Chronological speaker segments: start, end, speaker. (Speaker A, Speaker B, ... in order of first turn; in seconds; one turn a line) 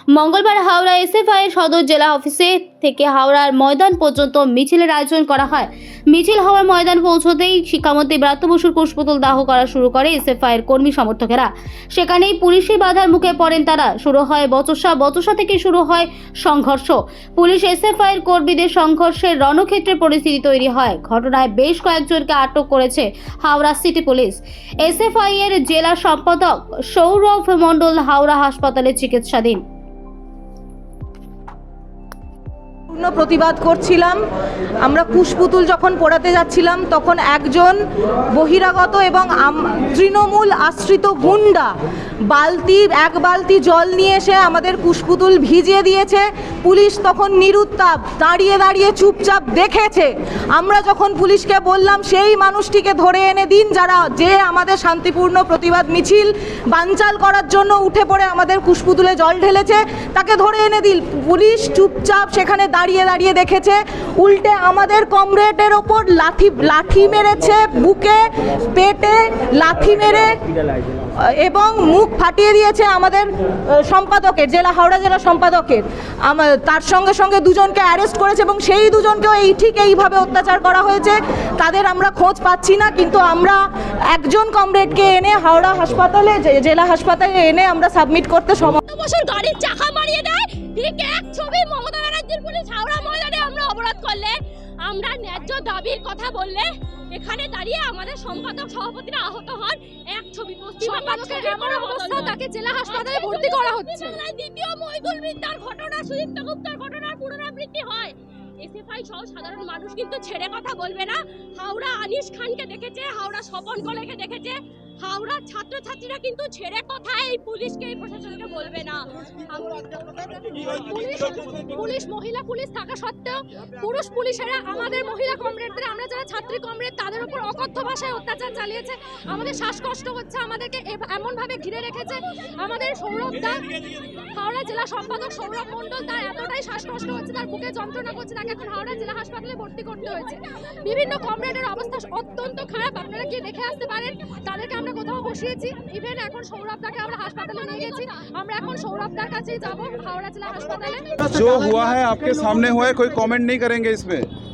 Speaker A: 0.1-29.6
Speaker B: 32.9-34.2
Speaker B: 34.8-37.8
Speaker B: 38.3-41.7
Speaker B: 42.3-70.3
Speaker B: 71.2-73.3
Speaker B: 73.8-88.8
Speaker C: 88.8-126.0
Speaker D: 100.8-104.2
Speaker D: 125.0-133.7
Speaker C: 132.6-133.6
Speaker C: 134.4-136.7
Speaker D: 134.4-140.4
Speaker C: 138.7-139.4
Speaker C: 140.8-141.2
Speaker D: 141.1-151.2
Speaker C: 141.9-143.2
Speaker C: 147.6-148.1
Speaker E: 151.3-154.3